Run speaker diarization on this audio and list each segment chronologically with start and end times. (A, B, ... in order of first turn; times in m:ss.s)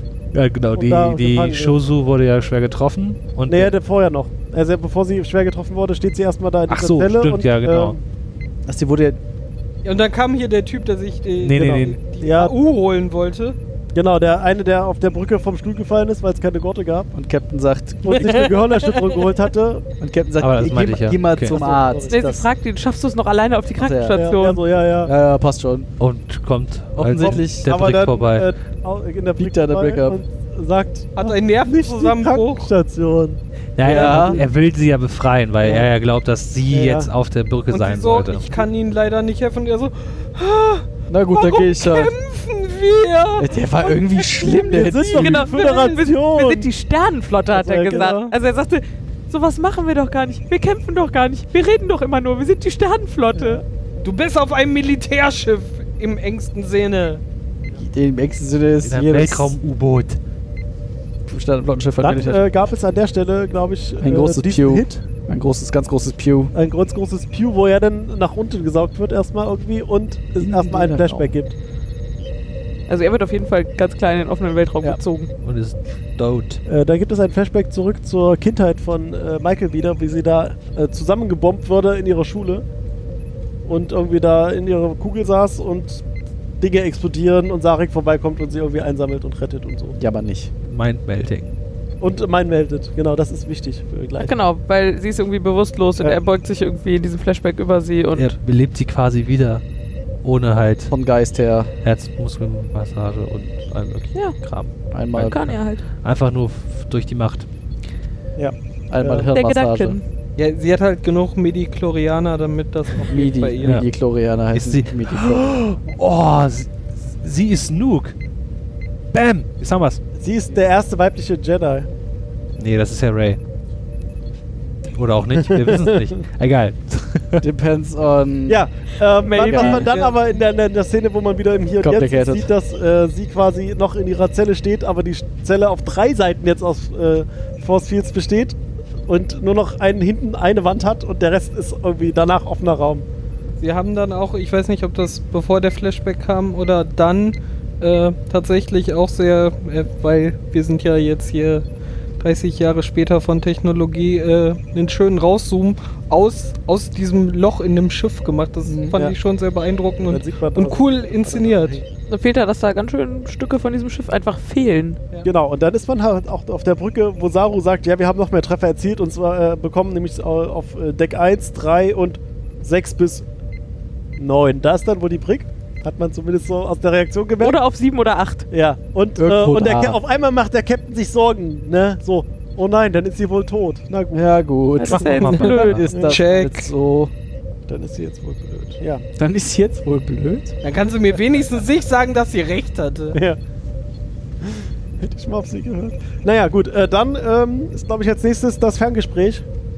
0:00.3-0:03.7 A
0:00.7-0:01.8 B
0:03.5-0:08.0 B
0:06.7-0:08.0 A
0:08.6-0:09.2 C
0:09.8-0:13.6 D
0:11.4-0:12.0 A
0:11.5-0:12.5 B
0:13.9-0:17.1 B
0:17.1-0:18.5 C
0:18.0-0:19.8 B
0:18.2-0:19.1 D
0:20.0-0:22.1 C
0:20.4-0:21.6 A
0:21.5-0:22.5 B
0:22.1-0:24.6 E
0:23.8-0:24.2 C
0:24.1-0:25.1 B
0:25.0-0:25.9 C
0:26.0-0:28.5 A
0:27.0-0:27.7 C
0:27.1-0:34.4 B
0:29.4-0:30.2 C
0:31.2-0:32.7 D
0:33.8-0:38.5 A
0:33.8-0:34.4 C
0:34.0-0:34.4 D
0:35.6-0:35.9 B
0:36.7-0:37.1 B
0:37.7-0:46.0 D
0:41.1-0:42.1 C
0:43.4-0:45.4 C
0:44.7-0:46.7 B
0:45.1-0:53.6 E
0:47.5-0:48.3 B
0:53.3-0:53.6 B
0:54.0-0:57.2 D
0:57.8-0:59.6 C
0:58.8-1:00.2 A
1:01.3-1:02.5 C
1:02.0-1:05.0 B
1:04.0-1:06.5 C
1:06.5-1:11.5 B
1:10.4-1:11.3 C
1:12.9-1:15.3 E
1:15.4-1:16.6 A
1:16.6-1:22.6 B
1:23.6-1:26.0 B
1:26.6-1:30.0 B
1:30.0-1:30.5 C
1:30.7-1:31.5 A
1:32.0-1:34.3 B
1:34.2-1:38.4 E
1:38.1-1:39.6 A
1:40.2-1:40.9 A
1:40.9-1:41.7 C
1:41.8-1:47.5 A
1:44.9-1:45.4 C
1:45.3-1:45.8 E
1:48.4-1:49.3 B
1:48.9-1:50.0 C
1:49.3-1:50.0 E
1:50.4-1:53.8 D
1:53.0-1:55.5 C
1:53.6-1:53.9 A
1:54.5-1:58.2 A
1:59.1-2:00.0 A
2:00.2-2:01.9 B
2:02.6-2:03.4 A
2:04.9-2:07.4 A
2:05.4-2:05.9 B
2:07.4-2:08.6 C
2:08.5-2:18.6 B
2:09.2-2:09.9 E
2:09.4-2:09.9 C
2:11.8-2:12.5 C
2:19.1-2:23.0 B
2:23.6-2:31.6 D
2:32.2-2:41.8 D
2:38.6-2:38.9 C
2:40.0-2:41.8 B
2:42.1-2:45.0 E
2:45.2-2:53.2 B
2:54.2-2:57.6 B
2:57.4-2:58.5 E
2:58.5-3:04.3 B
2:59.2-3:00.0 C
3:04.1-3:07.1 C
3:04.8-3:05.8 E
3:05.3-3:05.9 A
3:05.4-3:06.7 D
3:05.8-3:06.2 B
3:07.7-3:09.0 B
3:09.2-3:10.6 C
3:10.6-3:13.2 D
3:13.1-3:13.4 B
3:14.4-3:19.4 B